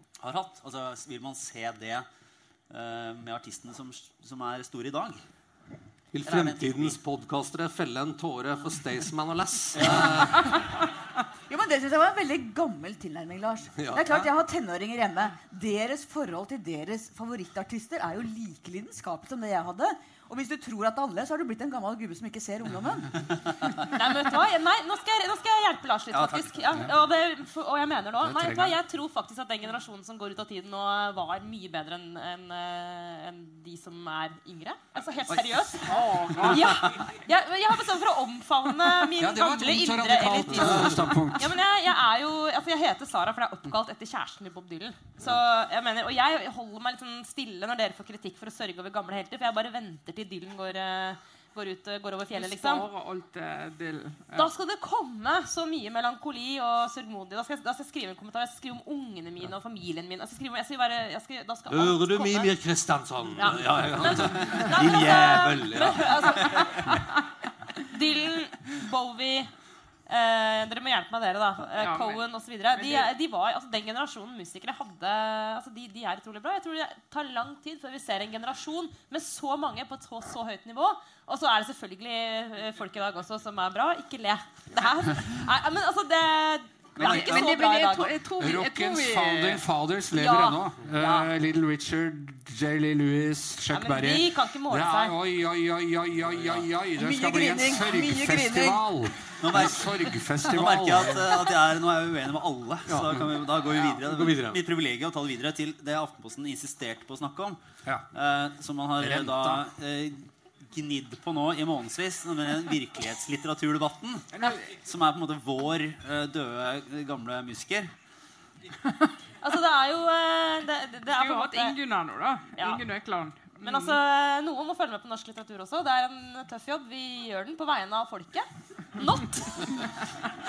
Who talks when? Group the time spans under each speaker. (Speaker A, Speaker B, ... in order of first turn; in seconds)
Speaker A: 0.2-2.0, 2.7-5.2, 6.2-7.0, 9.8-10.1, 26.1-26.8, 99.4-107.6, 108.1-117.9
Speaker B: 6.1-10.6, 13.8-14.2, 61.7-66.2, 96.3-96.6, 102.9-104.6
Speaker C: 11.5-23.2, 97.0-98.8
Speaker D: 23.8-52.9, 54.3-62.5, 63.4-66.9, 67.8-69.5, 70.1-88.1, 90.1-91.3, 93.7-95.2, 119.4-121.8, 122.5-122.8, 123.6-130.1
Speaker E: 28.2-28.8, 39.2-41.6, 88.4-101.5, 109.0-109.7
Speaker F: 35.8-36.8, 52.3-54.5, 71.8-73.1, 87.0-89.6, 114.3-114.7, 121.0-124.0